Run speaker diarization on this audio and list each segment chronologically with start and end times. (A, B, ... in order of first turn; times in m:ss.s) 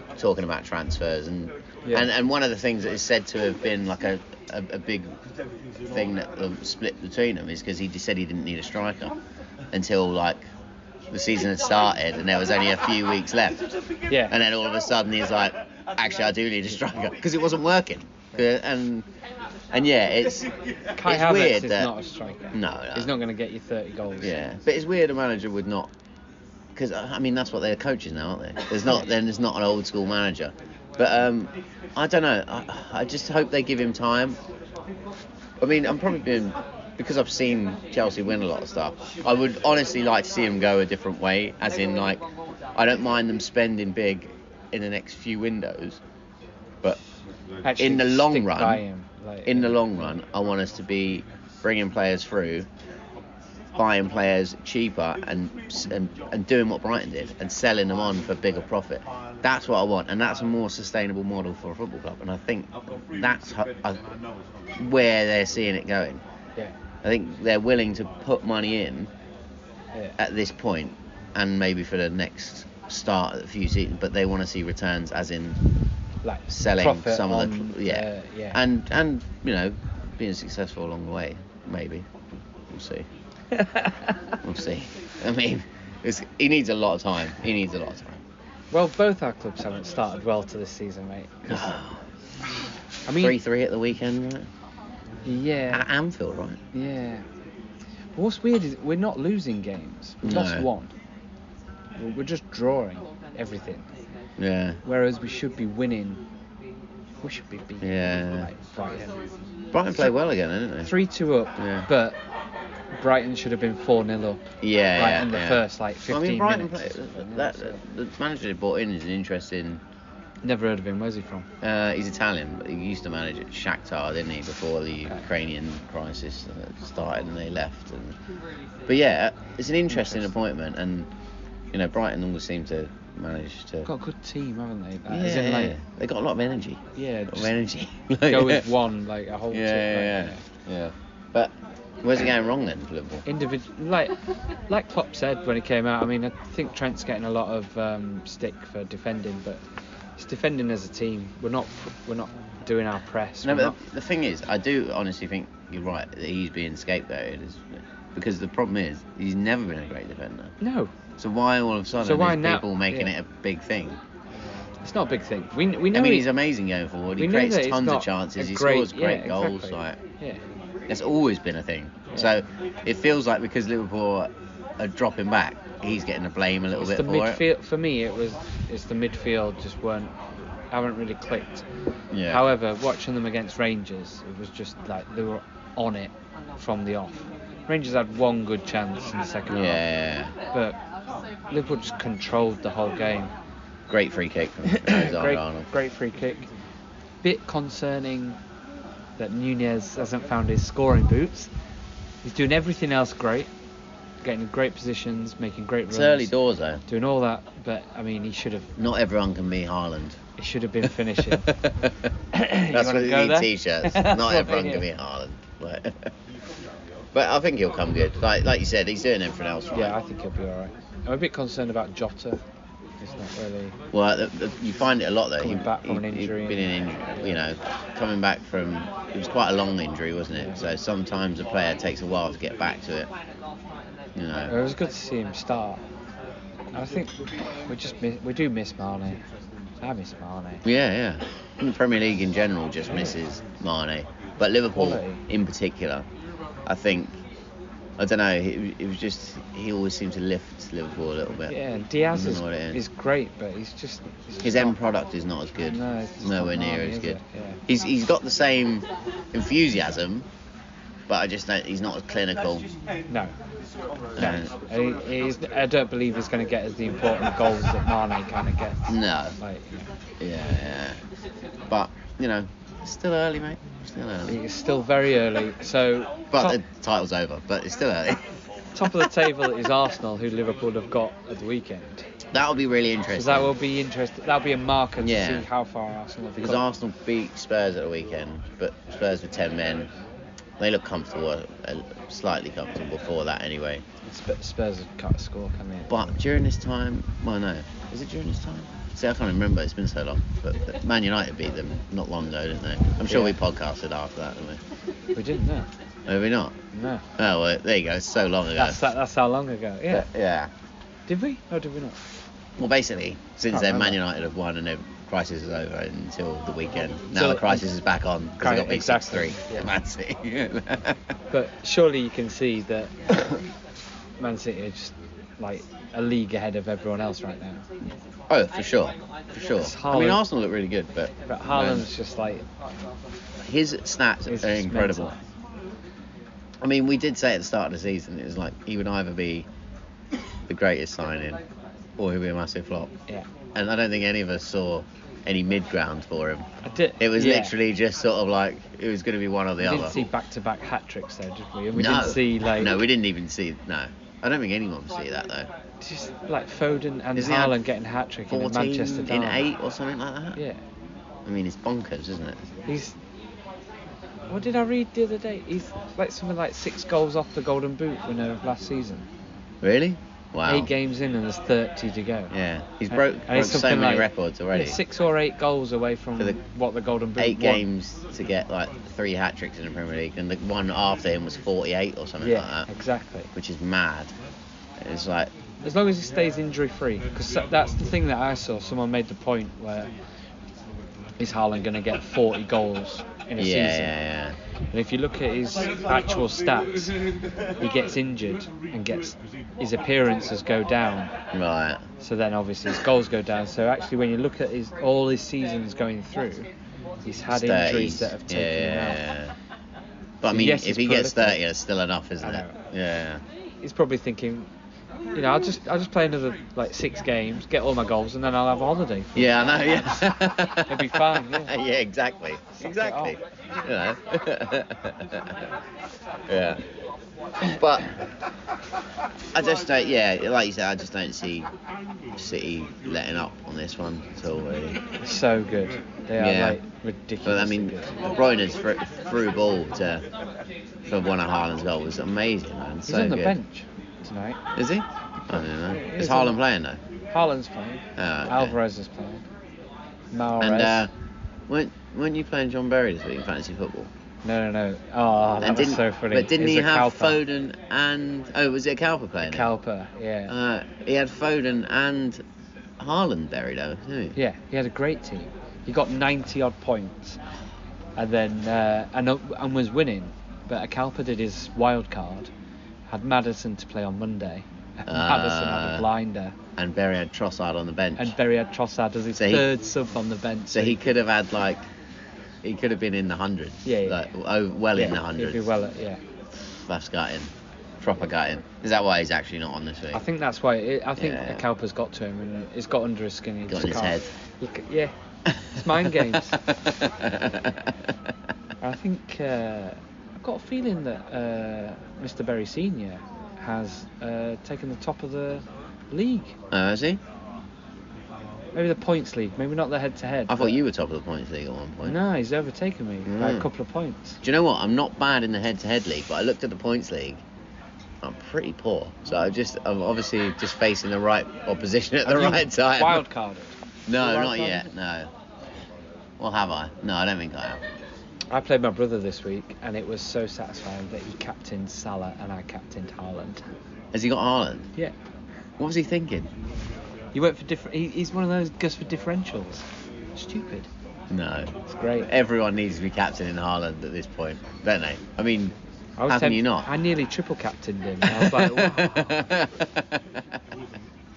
0:00.2-0:05.2 A
0:05.9-0:09.2 A
0:09.7-0:10.4 A
0:11.1-0:13.6 A
0:14.1-0:14.4 B
0:14.3-0:19.1 A
0:19.7-0:20.5 A
0:21.0-0:24.3 B
0:21.0-0:21.9 A
0:22.5-0:23.1 A
0:24.2-0:25.9 A
0:26.8-0:34.4 A
0:35.6-0:42.2 A
0:42.8-0:46.0 A
0:47.6-0:50.2 B
0:47.8-0:48.8 A
0:49.5-0:52.7 A
0:53.8-1:04.1 A
1:04.8-1:06.2 A
1:07.0-1:09.1 A
1:10.2-1:15.6 A
1:16.2-1:18.6 B
1:16.5-1:22.1 A
1:22.7-1:23.1 A
1:23.5-1:24.4 B
1:24.4-1:28.2 A
1:28.7-1:31.7 B
1:31.5-1:32.0 A
1:33.1-1:33.4 B
1:33.2-1:34.5 A
1:35.2-1:35.8 B
1:35.7-1:36.6 A
1:36.7-1:37.2 B
1:38.2-1:40.9 B
1:40.2-1:40.7 A
1:42.0-1:43.9 B
1:44.4-1:44.8 A
1:44.8-1:46.2 B
1:47.2-1:49.1 B
1:47.8-1:48.5 A
1:49.7-1:50.9 A
1:50.8-1:52.2 B
1:51.6-1:51.9 A
1:53.0-1:54.4 B
1:54.6-1:59.8 A
1:55.0-1:57.8 B
2:00.4-2:01.5 B
2:01.6-2:08.2 A
2:08.9-2:11.1 A
2:09.9-2:10.4 B
2:11.7-2:13.9 A
2:13.9-2:15.8 B
2:15.1-2:18.7 A
2:17.0-2:17.5 B
2:18.3-2:20.4 B
2:19.5-2:23.2 A
2:23.3-2:24.2 B
2:24.7-2:29.6 B
2:30.2-2:33.8 B
2:33.4-2:40.6 A
2:40.6-2:40.9 B
2:41.2-2:44.0 A
2:42.0-2:43.1 B
2:44.8-2:46.3 B
2:45.9-2:50.0 A
2:47.2-2:50.4 B
2:50.9-2:57.4 A
2:56.7-3:00.1 B
3:00.7-3:01.6 B
3:02.1-3:02.4 A
3:02.3-3:09.8 B
3:09.5-3:10.3 A
3:10.5-3:10.8 B
3:11.5-3:13.3 B
3:13.9-3:15.7 A
3:14.6-3:16.5 B
3:17.2-3:18.4 B
3:19.2-3:21.5 B
3:22.2-3:23.5 B
3:24.2-3:26.3 B
3:25.9-3:26.8 A
3:26.9-3:28.7 B
3:28.8-3:30.2 A
3:30.4-3:31.5 B
3:31.2-3:31.9 A
3:32.3-3:34.9 B
3:32.7-3:36.1 A
3:37.1-3:40.0 A
3:39.7-3:42.4 B
3:43.0-3:43.8 B
3:43.9-3:53.1 A
3:45.4-3:47.3 B
3:50.4-3:50.6 B
3:54.2-3:54.6 A
3:54.5-3:55.8 B
3:56.7-3:57.2 B
3:57.7-3:59.2 B
3:59.8-4:00.6 B
4:00.6-4:06.1 A
4:04.7-4:05.2 B
4:06.7-4:07.2 A
4:08.0-4:11.6 A
4:11.5-4:14.8 B
4:12.1-4:12.8 A
4:14.4-4:20.3 A
4:15.7-4:17.6 B
4:21.1-4:22.7 A
4:24.2-4:24.5 A
4:24.2-4:29.8 B
4:28.9-4:29.4 A
4:30.2-4:31.0 A
4:31.7-4:34.4 A
4:34.3-4:36.6 B
4:36.3-4:38.3 A
4:38.8-4:42.1 B
4:42.3-4:43.5 A
4:43.1-4:46.6 B
4:45.0-4:45.5 A
4:46.4-4:49.9 A
4:50.6-4:53.8 A
4:54.0-4:56.1 B
4:55.9-5:04.6 A
5:03.1-5:03.4 B
5:05.2-5:05.7 B
5:06.1-5:06.6 A
5:06.7-5:07.0 B
5:07.2-5:08.8 A
5:08.6-5:10.1 B
5:09.9-5:10.5 A
5:11.1-5:12.0 B
5:12.6-5:21.0 A
5:13.5-5:14.0 B
5:17.1-5:17.7 B
5:18.4-5:19.7 B
5:21.3-5:23.2 B
5:24.2-5:27.6 B
5:28.3-5:31.9 A
5:29.6-5:30.2 B
5:31.3-5:32.4 B
5:33.4-5:35.1 A
5:34.3-5:35.2 B
5:36.6-5:39.5 A
5:40.5-5:41.4 A
5:42.0-5:42.9 A
5:43.6-5:46.5 A
5:46.6-5:47.5 B
5:47.0-5:50.0 A
5:49.6-5:52.8 B
5:51.7-5:55.5 A
5:55.8-5:59.4 B
5:57.2-5:57.6 A
5:58.3-6:00.4 A
6:01.3-6:02.5 A
6:02.7-6:03.0 B
6:04.3-6:09.1 B
6:09.6-6:10.7 A
6:10.5-6:12.3 B
6:12.3-6:14.8 A
6:12.9-6:17.6 B
6:17.2-6:22.7 A
6:22.2-6:23.3 B
6:23.4-6:24.1 A
6:24.8-6:25.3 A
6:25.6-6:29.9 B
6:31.2-6:34.0 B
6:33.4-6:34.4 A
6:34.7-6:36.9 B
6:37.6-6:41.1 B
6:41.3-6:41.8 A
6:42.0-6:46.5 B
6:47.0-6:49.0 B
6:47.3-6:49.4 A
6:50.2-6:53.2 A
6:50.3-6:51.4 B
6:52.2-6:52.6 B
6:53.6-6:54.5 B
6:55.2-7:01.5 B
6:59.2-7:05.4 A
7:02.6-7:03.2 B
7:06.3-7:06.6 A
7:07.4-7:07.9 A
7:09.3-7:11.5 A
7:12.2-7:14.8 A
7:15.0-7:18.0 B
7:16.2-7:16.6 A
7:17.2-7:20.0 A
7:20.9-7:23.4 A
7:22.9-7:24.4 B
7:24.6-7:26.8 A
7:25.3-7:26.4 B
7:27.1-7:29.2 B
7:28.0-7:28.6 A
7:30.1-7:30.9 B
7:30.4-7:30.9 A
7:31.5-7:33.9 A
7:34.2-7:37.2 B
7:35.4-7:39.5 A
7:39.2-7:40.3 B
7:40.3-7:42.2 A
7:42.8-7:44.2 A
7:44.2-7:47.2 B
7:48.0-7:52.3 B
7:52.9-7:56.4 B
7:54.9-7:55.9 A
7:56.6-7:58.2 A
7:58.0-8:00.9 B
7:59.2-7:59.5 A
8:00.5-8:01.6 A
8:02.4-8:05.5 A
8:03.6-8:04.1 B
8:04.7-8:06.0 B
8:06.5-8:10.0 A
8:09.9-8:14.9 B
8:11.0-8:11.4 A
8:13.5-8:14.1 A
8:15.3-8:17.9 A
8:15.5-8:16.4 B
8:18.6-8:26.4 B
8:26.5-8:27.0 A
8:28.6-8:30.6 B
8:30.3-8:32.0 A
8:31.8-8:34.2 B
8:33.1-8:33.5 A
8:34.2-8:37.2 A
8:38.0-8:43.0 A
8:42.0-8:44.7 B
8:43.9-8:45.1 A
8:46.2-8:47.6 A
8:48.3-8:53.4 B
8:53.9-8:54.7 A
8:55.6-8:56.3 A
8:57.1-8:59.6 B
9:00.2-9:00.7 B
9:01.1-9:05.6 A
9:01.7-9:02.1 B
9:06.0-9:09.2 B
9:06.1-9:06.7 A
9:08.0-9:10.2 A